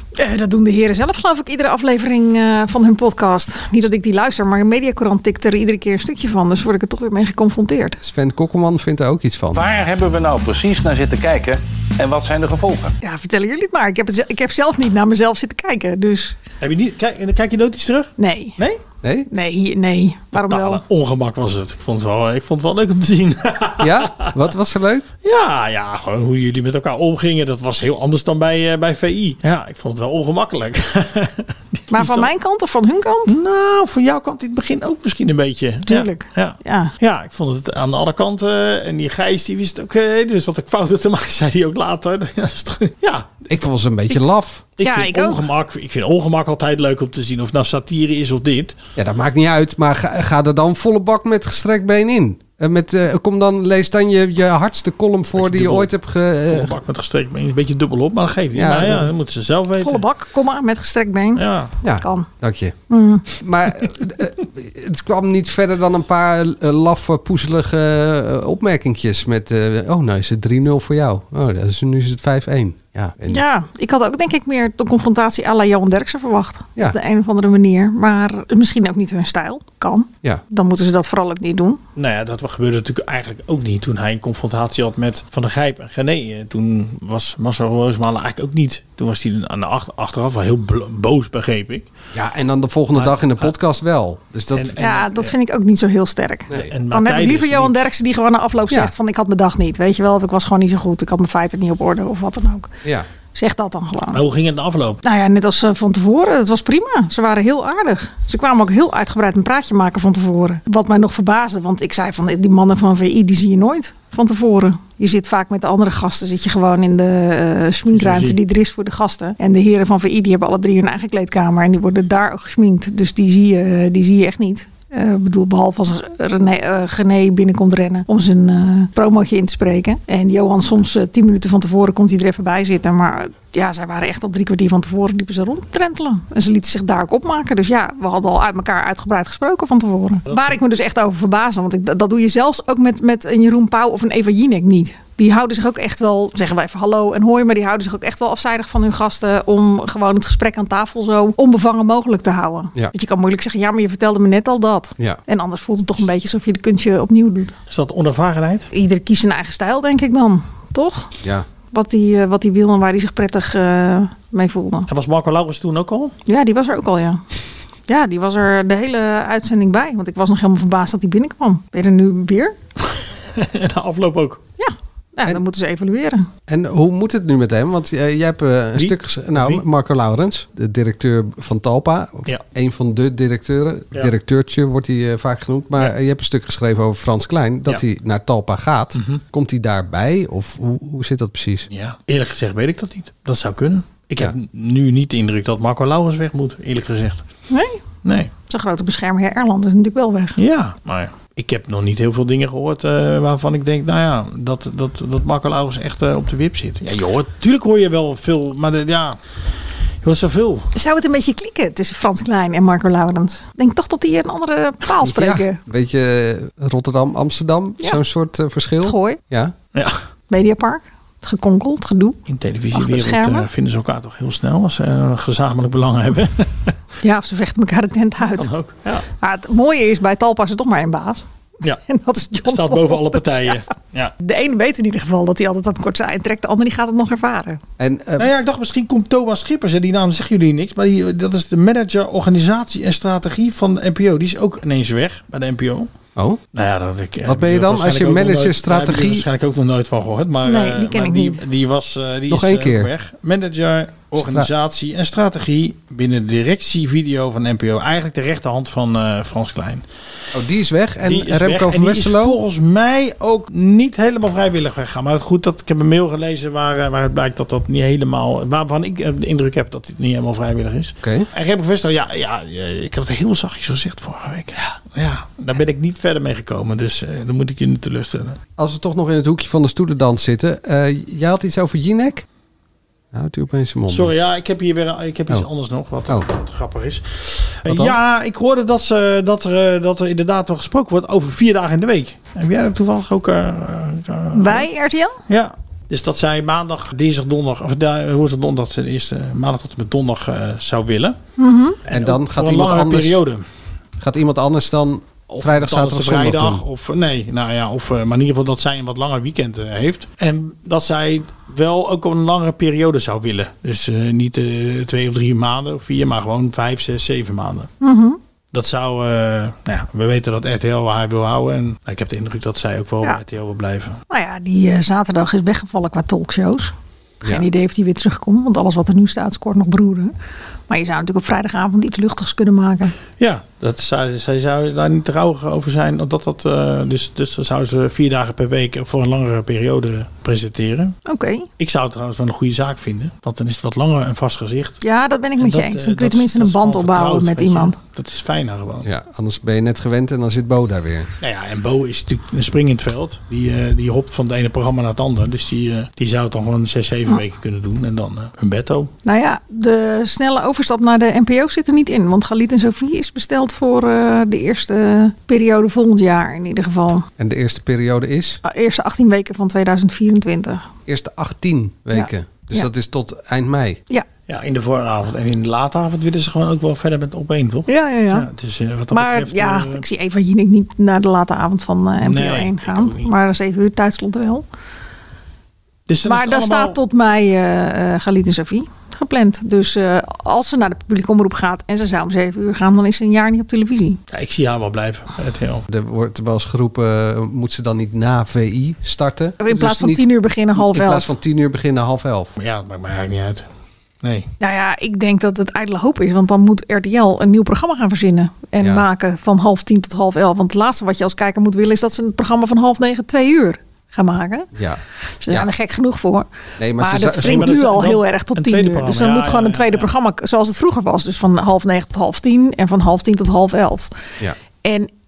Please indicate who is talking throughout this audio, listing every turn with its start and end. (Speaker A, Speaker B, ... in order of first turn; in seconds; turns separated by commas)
Speaker A: 0.2-8.0, Speaker B: 8.0-9.7, Speaker C: 9.5-12.9, Speaker A: 13.0-16.4, Speaker D: 16.6-18.8, Speaker A: 18.2-18.6, Speaker B: 19.0-19.3, Speaker A: 19.3-20.8, Speaker D: 20.3-24.3, Speaker B: 23.8-25.1, Speaker D: 25.2-32.3, Speaker A: 31.9-33.4, Speaker D: 33.3-43.4, Speaker A: 35.9-36.9, Speaker B: 43.5-44.7, Speaker D: 44.8-48.8, Speaker A: 44.8-45.4, Speaker B: 49.0-56.7, Speaker D: 55.4-55.9, Speaker D: 56.5-60.0, Speaker B: 58.5-59.1, Speaker A: 59.8-61.4, Speaker D: 61.4-61.7, Speaker B: 61.8-62.8, Speaker A: 62.0-62.3, Speaker A: 62.9-63.3, Speaker B: 63.4-73.4, Speaker A: 73.3-81.8, Speaker D: 82.0-91.9, Speaker B: 92.1-94.8, Speaker D: 93.0-93.5, Speaker D: 94.5-95.3, Speaker A: 94.8-102.7, Speaker D: 96.5-97.8, Speaker A: 103.3-104.2, Speaker D: 104.1-105.0, Speaker A: 105.0-157.5, Speaker D: 117.9-118.4, Speaker D: 140.3-140.6, Speaker D: 157.7-158.7, Speaker A: 158.7-161.1, Speaker A: 161.7-164.9, Speaker D: 164.9-166.1, Speaker A: 166.3-167.2, Speaker A: 167.9-172.6, Speaker D: 173.0-174.4, Speaker A: 174.6-176.3, Speaker B: 176.5-191.7, Speaker D: 178.8-179.6, Speaker D: 188.9-189.2, Speaker D: 191.7-197.2, Speaker A: 197.5-197.8, Speaker D: 198.0-198.3, Speaker A: 198.5-200.4, Speaker D: 200.4-209.2, Speaker D: 210.0-210.7, Speaker A: 210.8-215.6, Speaker B: 215.0-219.5, Speaker A: 218.8-219.2, Speaker D: 219.7-220.0, Speaker A: 220.3-222.2, Speaker D: 222.3-226.8, Speaker A: 222.7-223.5, Speaker A: 227.0-228.5, Speaker D: 228.3-229.1, Speaker A: 229.2-231.2, Speaker A: 231.9-233.6, Speaker D: 232.4-234.1, Speaker A: 234.2-237.6, Speaker B: 237.8-238.3, Speaker D: 238.2-245.9, Speaker B: 246.2-246.4, Speaker D: 246.5-259.9, Speaker B: 247.3-249.3, Speaker A: 250.4-251.4, Speaker B: 252.3-252.9, Speaker B: 254.2-254.5, Speaker B: 260.3-262.4, Speaker D: 261.0-278.4, Speaker B: 278.6-282.2, Speaker B: 283.1-284.1, Speaker D: 283.9-294.7, Speaker B: 287.7-288.0, Speaker A: 294.4-295.2, Speaker D: 295.3-301.2, Speaker A: 301.4-301.8, Speaker D: 301.9-303.4, Speaker B: 301.9-303.2, Speaker B: 304.0-306.6, Speaker D: 305.3-317.7, Speaker A: 317.8-318.2, Speaker D: 318.5-324.0, Speaker A: 324.1-330.1, Speaker A: 330.7-333.0, Speaker D: 333.2-340.9, Speaker A: 341.1-341.5, Speaker D: 341.6-344.8, Speaker A: 344.8-347.8, Speaker D: 345.4-348.9, Speaker B: 348.9-351.1, Speaker D: 351.2-358.9, Speaker A: 359.1-367.1, Speaker B: 367.2-368.4, Speaker A: 368.4-370.6, Speaker B: 370.9-373.8, Speaker A: 371.9-372.7, Speaker D: 374.3-379.8, Speaker A: 377.7-378.3, Speaker A: 378.9-384.4, Speaker D: 382.0-383.1, Speaker D: 385.9-386.8, Speaker A: 386.1-394.0, Speaker D: 394.1-395.7, Speaker B: 395.7-402.4, Speaker A: 399.4-401.1, Speaker D: 402.4-403.5, Speaker D: 404.0-404.3, Speaker A: 404.4-414.5, Speaker B: 414.6-415.5, Speaker A: 415.2-423.9, Speaker B: 416.6-417.5, Speaker D: 417.1-419.9, Speaker A: 424.6-424.9